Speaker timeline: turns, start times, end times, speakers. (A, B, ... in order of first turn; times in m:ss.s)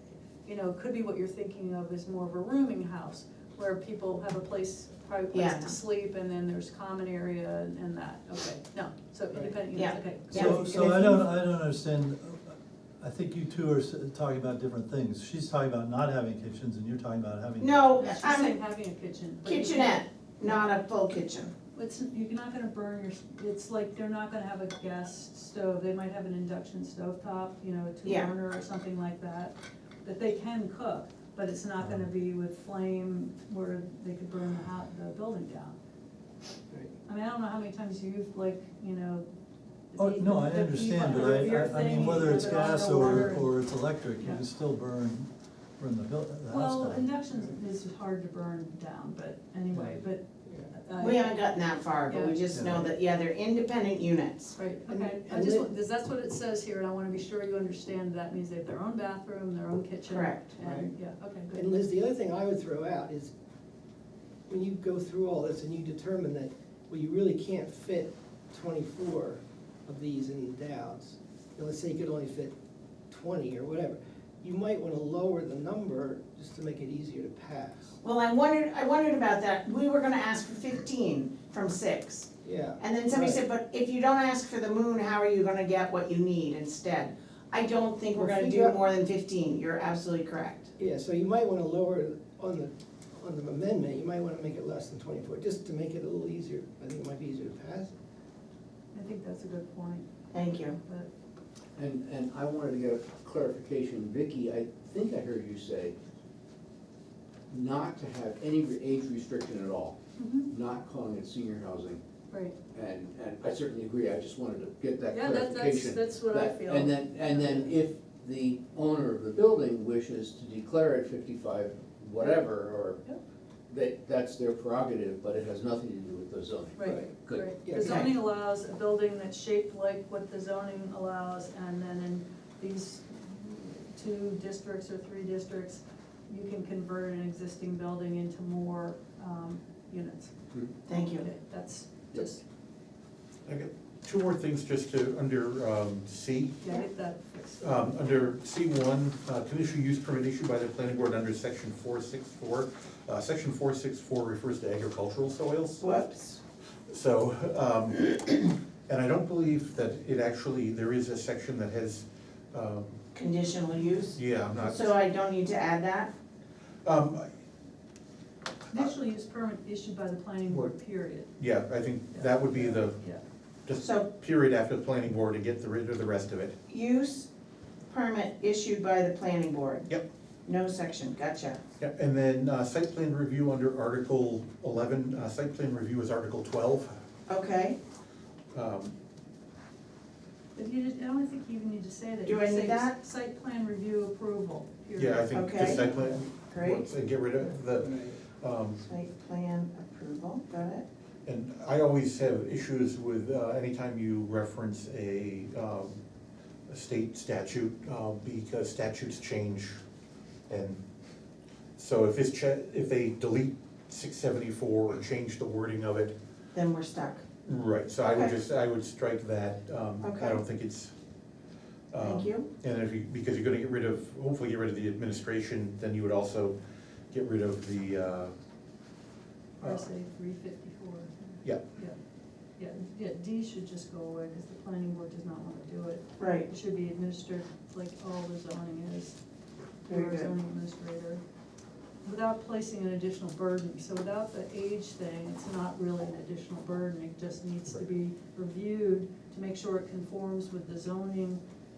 0:00.4-0:11.2 A
0:05.3-0:05.8 B
0:09.7-0:10.6 B
0:10.3-0:17.8 C
0:17.6-0:18.6 B
0:18.0-0:20.6 A
0:19.4-0:21.5 B
0:21.7-0:35.8 A
0:28.0-0:28.3 B
0:37.0-0:39.3 A
0:39.9-0:43.6 A
0:40.0-0:47.1 C
0:46.5-0:51.4 A
0:50.5-0:50.7 D
0:51.0-0:54.6 B
0:52.1-0:52.4 A
0:52.5-0:52.9 C
0:54.6-1:01.7 A
0:54.9-0:55.7 D
1:00.1-1:00.5 B
1:00.6-1:00.9 D
1:01.5-1:03.3 D
1:04.5-1:12.5 D
1:13.1-1:17.9 D
1:18.0-1:30.7 B
1:22.4-1:23.4 D
1:28.2-1:28.8 D
1:30.8-1:38.0 D
1:38.9-1:41.1 A
1:40.3-1:40.8 B
1:41.8-1:46.0 E
1:47.5-1:50.0 E
1:50.2-1:50.5 A
1:50.5-1:52.0 E
1:52.7-2:03.0 E
1:55.1-1:57.7 A
2:03.7-2:07.6 E
2:06.8-2:20.3 A
2:06.8-2:07.1 D
2:07.6-2:08.0 D
2:07.8-2:08.1 B
2:20.9-2:21.3 B
2:20.9-2:22.4 A
2:23.5-2:26.6 F
2:26.6-2:28.0 A
2:27.6-2:35.9 F
2:35.8-2:36.4 B
2:36.9-2:43.0 F
2:43.1-2:46.1 B
2:44.2-2:45.0 F
2:46.8-2:47.3 F
2:48.7-2:51.3 A
2:51.4-2:53.0 F
2:52.1-2:53.2 A
2:53.7-2:56.6 F
2:53.8-2:54.1 B
2:56.7-2:57.3 B
2:57.9-2:59.9 B
3:00.5-3:01.6 B
3:01.8-3:07.0 F
3:07.3-3:07.8 B
3:08.5-3:09.0 F
3:10.6-3:15.4 A
3:12.2-3:13.0 B
3:15.0-3:18.9 F
3:15.3-3:16.8 B
3:17.8-3:18.2 D
3:18.8-3:20.8 B
3:21.3-3:26.0 F
3:26.7-3:29.8 F
3:30.5-3:30.8 F
3:31.8-3:36.1 F
3:36.6-3:37.2 B
3:37.4-3:40.9 F
3:38.1-3:38.4 B
3:40.0-3:40.4 B
3:41.9-3:46.6 F
3:42.0-3:42.5 B
3:47.1-3:48.3 F
3:49.6-3:52.0 A
3:49.6-3:49.9 F
3:52.6-3:59.2 A
3:56.2-3:56.5 B
3:59.8-4:01.2 A
3:59.9-4:00.3 B
4:02.0-4:11.4 A